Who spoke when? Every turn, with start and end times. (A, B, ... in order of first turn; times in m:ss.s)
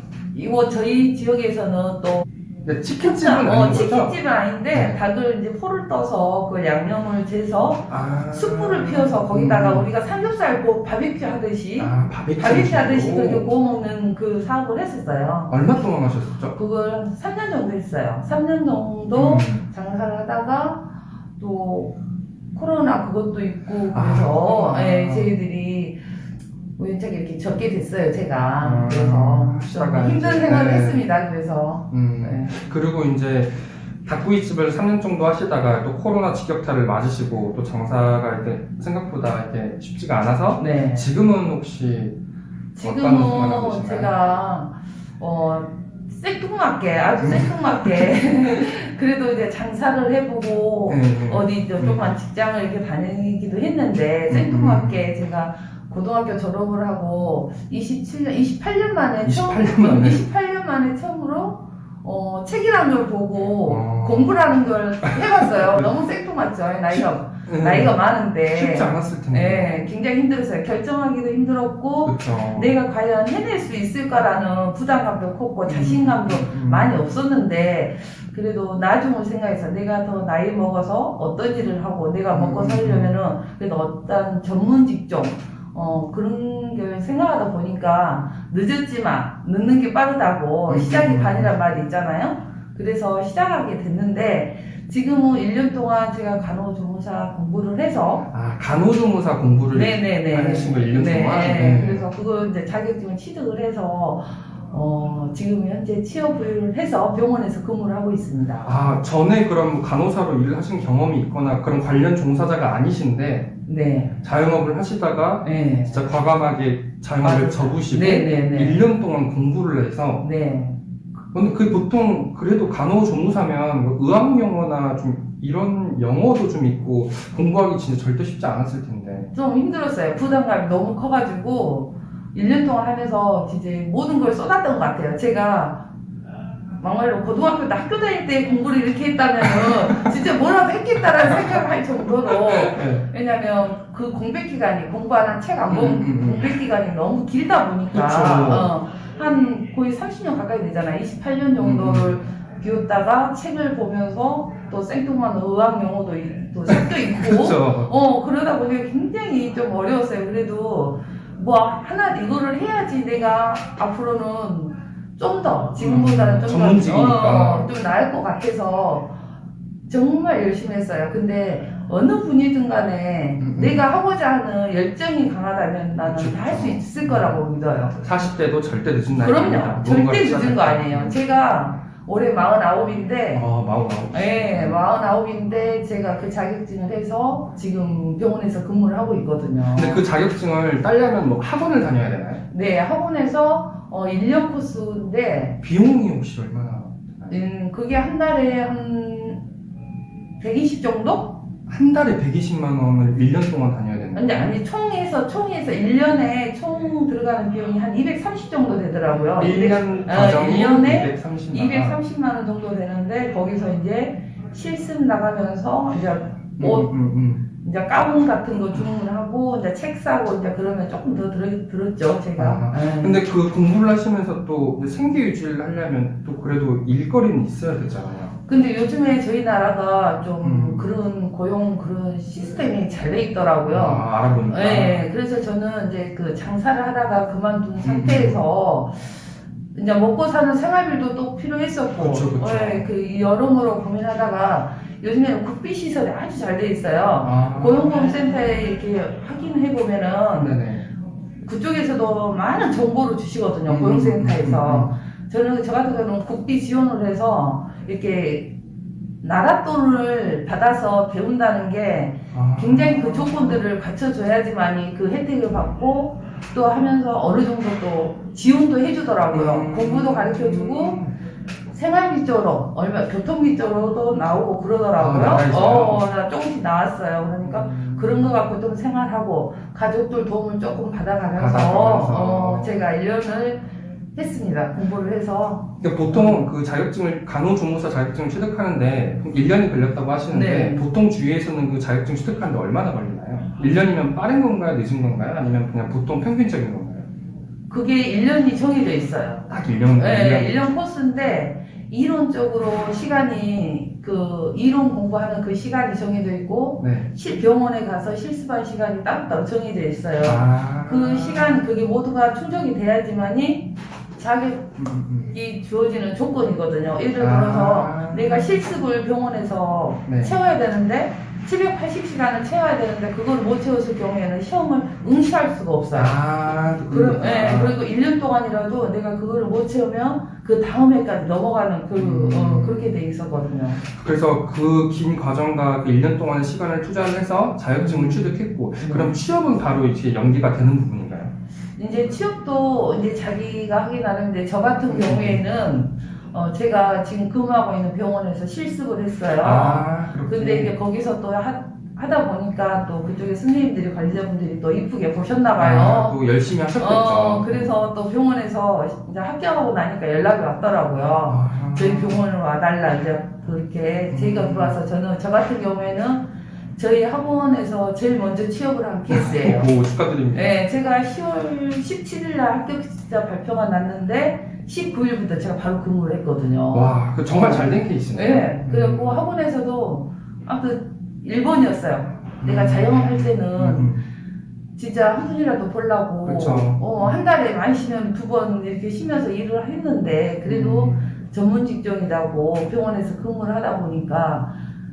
0:00.3-0:02.2 A
0:02.6-0:04.1 B
0:03.0-0:15.6 A
0:07.9-0:09.9 B
0:11.8-0:13.5 B
0:15.5-0:16.6 B
0:16.5-0:22.0 A
0:19.1-0:19.6 B
0:22.5-0:26.0 A
0:23.9-0:25.3 B
0:26.8-0:32.6 A
0:28.6-0:31.0 B
0:31.9-0:42.2 B
0:40.6-0:41.1 A
0:42.8-1:38.3 A
0:42.8-0:44.2 B
0:47.2-0:48.1 B
0:50.9-0:52.1 B
0:54.3-0:55.0 B
0:59.2-1:00.2 B
1:03.7-1:05.8 B
1:06.9-1:08.0 B
1:08.5-1:09.8 B
1:12.0-1:12.7 B
1:15.7-1:16.9 B
1:22.3-1:23.2 B
1:30.7-1:31.5 B
1:38.3-1:42.1 B
1:39.7-1:48.7 A
1:48.6-1:53.5 B
1:53.7-1:54.2 A
1:54.2-2:00.2 B
1:55.4-1:56.1 A
1:57.2-1:58.8 A
2:00.2-2:00.8 A
2:01.3-2:09.3 B
2:09.3-2:15.9 A
2:16.8-2:49.1 A
2:21.3-2:21.6 B
2:22.2-2:23.0 B
2:25.7-2:26.5 B
2:27.9-2:28.7 B
2:31.6-2:32.1 B
2:36.7-2:37.9 B
2:45.8-2:47.7 B
2:49.9-2:58.0 A
2:53.4-2:53.8 B
2:56.0-2:57.4 B
2:57.9-3:01.1 B
2:59.1-3:03.4 A
3:03.3-3:04.8 B
3:04.1-3:10.0 A
3:09.7-3:12.4 B
3:12.5-3:15.6 A
3:15.6-3:17.3 B
3:17.3-3:19.4 A
3:20.4-3:21.4 A
3:21.7-3:24.5 B
3:24.1-3:36.9 A
3:29.4-3:32.0 B
3:36.6-3:37.4 B
3:37.6-3:43.2 A
3:42.4-3:48.4 B
3:48.5-3:59.2 A
3:50.4-3:50.9 B
3:53.7-3:55.0 B
3:57.8-3:58.4 B
3:59.7-4:10.6 A
4:02.0-4:02.8 B
4:07.2-4:08.3 B
4:10.3-4:10.8 B
4:11.4-4:18.5 A
4:13.7-4:15.0 B
4:19.2-4:31.0 A
4:22.3-4:23.3 B
4:29.3-4:31.1 B
4:31.7-4:46.5 A
4:35.0-4:36.0 B
4:37.4-4:38.4 B
4:41.4-4:42.8 B
4:45.8-4:57.1 B
4:50.3-4:50.9 A
4:57.7-5:14.8 A
4:59.5-5:00.7 B
5:06.8-5:07.1 B
5:10.2-5:11.6 B
5:14.8-5:15.3 B
5:15.3-5:26.2 A
5:17.2-5:18.5 B
5:20.1-5:20.4 B
5:26.0-5:27.8 B
5:26.9-5:33.8 A
5:32.0-5:33.0 B
5:33.8-5:41.3 B
5:37.8-5:39.2 A
5:41.8-5:56.2 A
5:44.9-5:45.5 B
5:49.4-5:50.7 B
5:55.6-5:57.8 B
5:56.8-6:09.7 A
6:01.3-6:02.2 B
6:04.1-6:04.8 B
6:09.1-6:10.6 B
6:10.3-6:23.9 A
6:16.7-6:19.3 B
6:22.4-6:24.1 B
6:24.8-6:34.6 A
6:26.2-6:27.2 B
6:30.5-6:31.1 B